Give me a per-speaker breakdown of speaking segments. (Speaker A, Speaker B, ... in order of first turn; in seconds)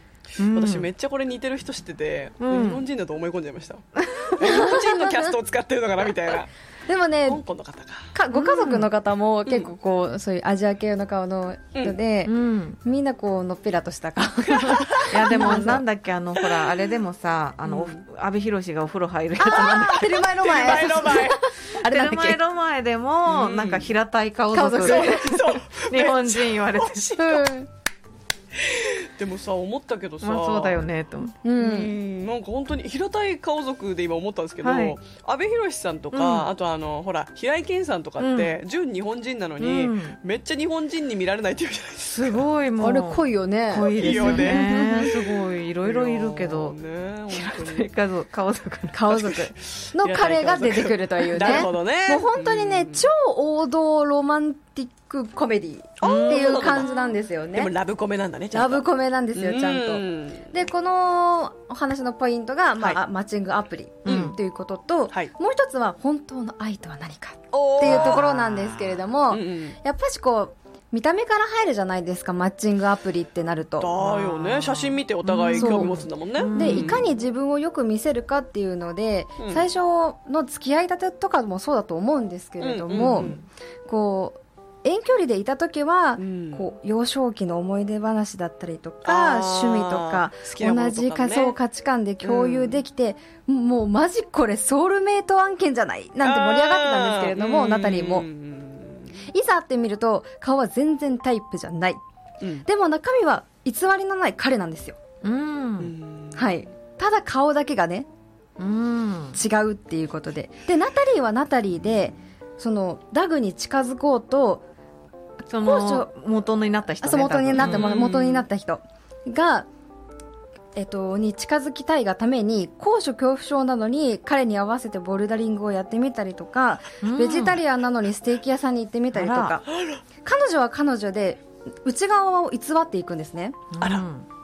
Speaker A: 0.4-0.9, 2.4-2.8, 4.0-4.4, 8.3-8.9, 12.2-12.8, 15.1-20.1, 21.8-27.0, 30.2-31.3, 34.6-35.0, 36.1-36.5, 38.2-38.6, 39.6-40.1, 42.1-46.8, 47.3-49.0, 51.4-51.7, 56.0-56.9, 64.0-64.4, 67.8-68.5, 74.0-77.1, 83.1-83.4, 105.2-105.9, 108.6-109.4, 115.5-118.3, 127.0-127.6, 129.1-129.6, 133.7-134.3
Speaker B: 0.4-6.5, 7.2-8.1, 9.4-9.7, 14.6-15.6, 16.4-16.7, 17.6-18.0, 19.5-21.4, 23.2-23.9, 24.8-27.4, 28.5-30.8, 31.6-42.4, 43.8-47.9, 49.1-53.1, 56.0-60.5, 64.0-64.4, 67.5-68.6, 69.3-69.8, 73.8-77.1, 79.4-79.7, 82.6-83.4, 86.2-86.7, 89.0-91.5, 92.2-92.8, 96.2-99.2, 105.8-106.5, 117.6-118.4, 129.7-130.0, 133.8-134.0
Speaker C: 4.4-5.3, 6.9-7.4, 8.1-15.8, 19.4-22.4, 24.5-25.6, 27.1-27.7, 31.4-31.9, 42.8-45.1, 48.9-57.7, 58.5-74.2, 75.5-98.2, 99.3-102.0, 102.6-105.0, 106.3-108.1, 109.3-114.6, 115.5-116.1, 117.0-119.7, 120.8-129.7, 130.2-133.6